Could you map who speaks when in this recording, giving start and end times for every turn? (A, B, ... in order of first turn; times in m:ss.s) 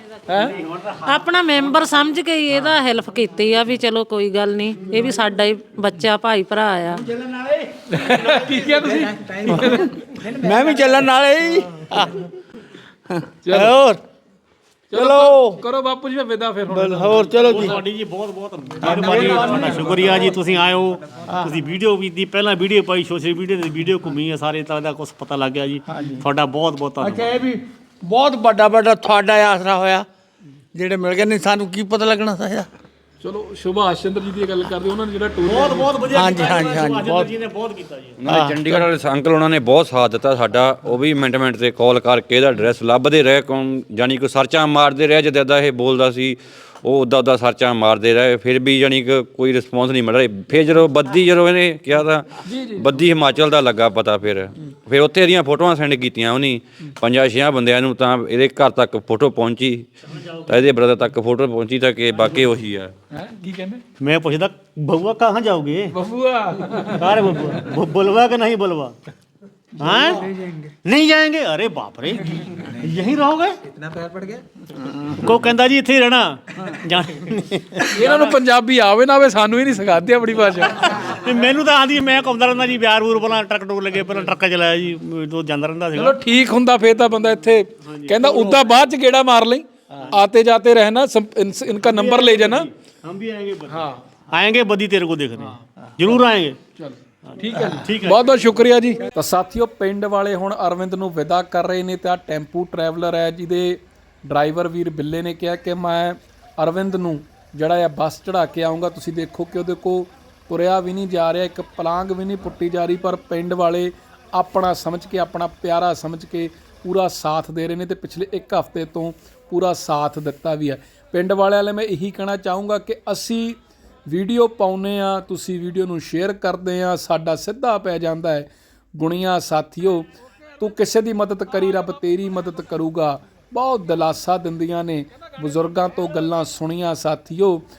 0:00.3-0:00.5 A
0:00.4-0:00.9 B
0:01.0-0:07.2 C
0:07.9-0:10.0 A
0:09.5-0:12.3 D
0:13.1-0:14.0 D
0:13.4-0:13.8 A
0:14.9-0:17.7 A
0:14.9-0:15.6 D
0:16.7-0:17.8 D
0:17.4-0:27.5 B
0:18.8-0:20.3 D
0:21.3-0:21.6 D
0:25.9-0:26.2 D
0:27.0-0:30.1 D
0:30.7-0:32.7 D
0:33.2-0:35.9 A
0:35.4-0:38.2 B
0:36.1-0:37.3 D
0:38.2-0:59.9 E
0:38.3-0:38.7 D
0:52.4-0:52.9 A
1:00.5-1:02.9 E
1:03.1-1:03.8 A
1:04.0-1:05.9 B
1:05.9-1:07.0 A
1:06.9-1:09.0 B
1:09.8-1:10.3 B
1:10.8-1:13.6 B
1:15.2-1:18.4 B
1:18.0-1:21.1 A
1:20.8-1:26.2 B
1:26.0-1:32.7 A
1:27.8-1:28.6 B
1:31.8-1:36.6 B
1:33.7-1:34.0 A
1:36.8-2:17.6 A
1:37.3-1:38.3 B